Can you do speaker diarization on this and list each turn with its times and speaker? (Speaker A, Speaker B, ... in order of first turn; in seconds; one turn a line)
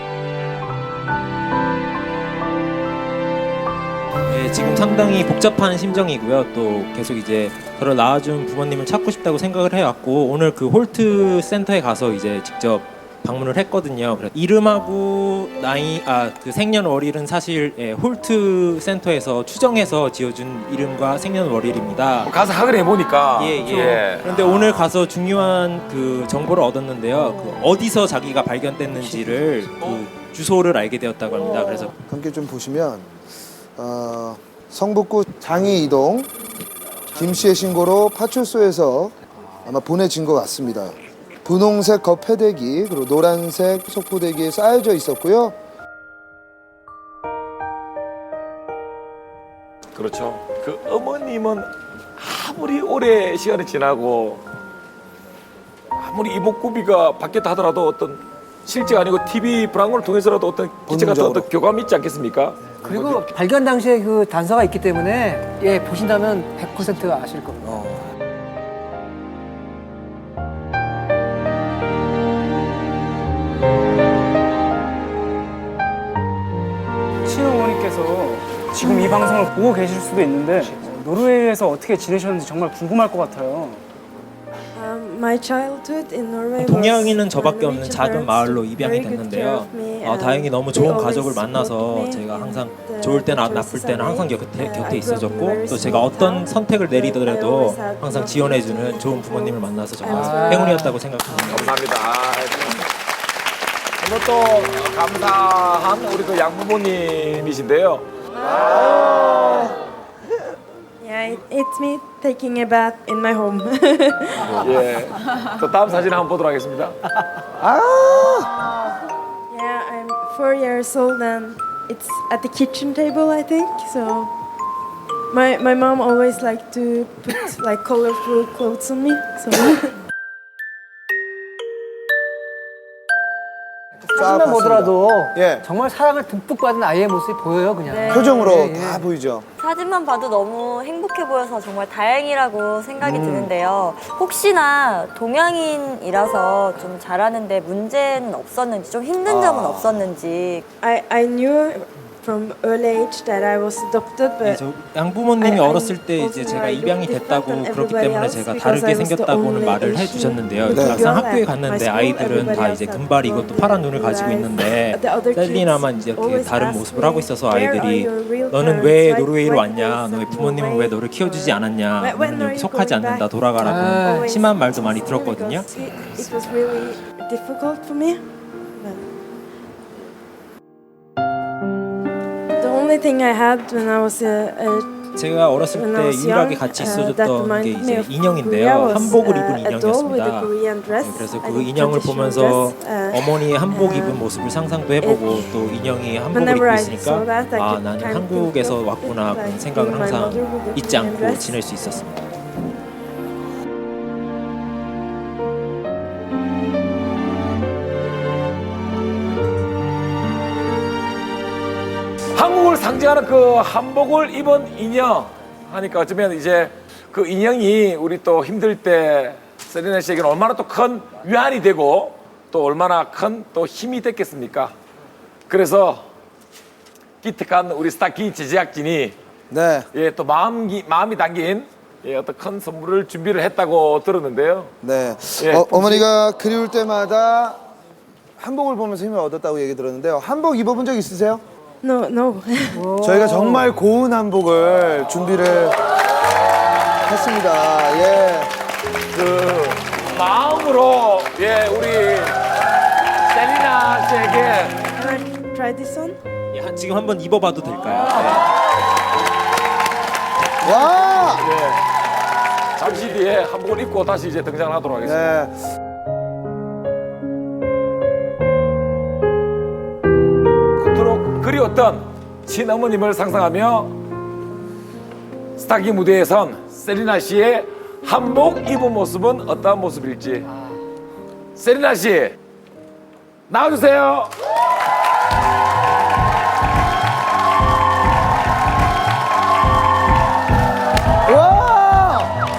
Speaker A: 4.3-22.3
Speaker B: 22.2-24.9
Speaker A: 23.4-31.9
Speaker C: 23.7-24.0
Speaker D: 32.1-33.1
Speaker D: 33.8-36.3
Speaker D: 37.1-45.5
Speaker B: 49.9-54.4
Speaker B: 56.0-62.8
Speaker D: 60.9-61.5
Speaker E: 62.8-68.0
Speaker D: 67.6-68.0
Speaker C: 77.2-83.8
Speaker F: 78.8-79.1
Speaker F: 84.7-100.9
Speaker A: 86.6-101.7
Speaker E: 100.2-100.9
Speaker B: 101.4-102.8
Speaker B: 104.0-108.0
Speaker F: 111.0-114.6
Speaker B: 114.6-117.0
Speaker D: 117.6-118.5
Speaker F: 119.5-124.3
Speaker F: 125.3-129.9
Speaker E: 134.0-139.1
Speaker D: 134.1-135.7
Speaker G: 137.9-138.6
Speaker D: 138.1-139.4
Speaker G: 139.6-150.7
Speaker D: 143.0-143.5
Speaker D: 149.2-150.0
Speaker F: 150.8-154.6
Speaker A: 154.4-176.1
Speaker F: 155.3-173.5
Speaker D: 160.7-161.1
Speaker E: 173.6-174.3
Speaker F: 174.1-178.2
Speaker F: 178.7-179.0
Speaker F: 182.6-194.3
Speaker A: 185.2-202.2
Speaker F: 195.0-195.7
Speaker F: 196.3-201.9
Speaker B: 212.3-224.7
Speaker B: 225.5-226.0
Speaker B: 227.2-229.1
Speaker D: 229.5-229.9
Speaker B: 229.9-234.7
Speaker D: 234.8-237.6
Speaker B: 235.4-235.8
Speaker D: 238.4-241.4
Speaker F: 241.8-242.9
Speaker E: 242.7-243.7
Speaker D: 243.0-245.8
Speaker D: 247.1-248.5
Speaker B: 249.1-252.4
Speaker B: 253.2-254.8
Speaker F: 254.9-256.2
Speaker A: 256.5-258.4
Speaker B: 257.9-258.4
Speaker D: 260.6-261.5
Speaker B: 261.4-261.8
Speaker B: 262.8-265.2
Speaker D: 265.0-265.6
Speaker B: 270.8-273.9
Speaker B: 275.6-280.5
Speaker B: 281.6-282.4
Speaker B: 283.5-284.3
Speaker D: 291.2-292.3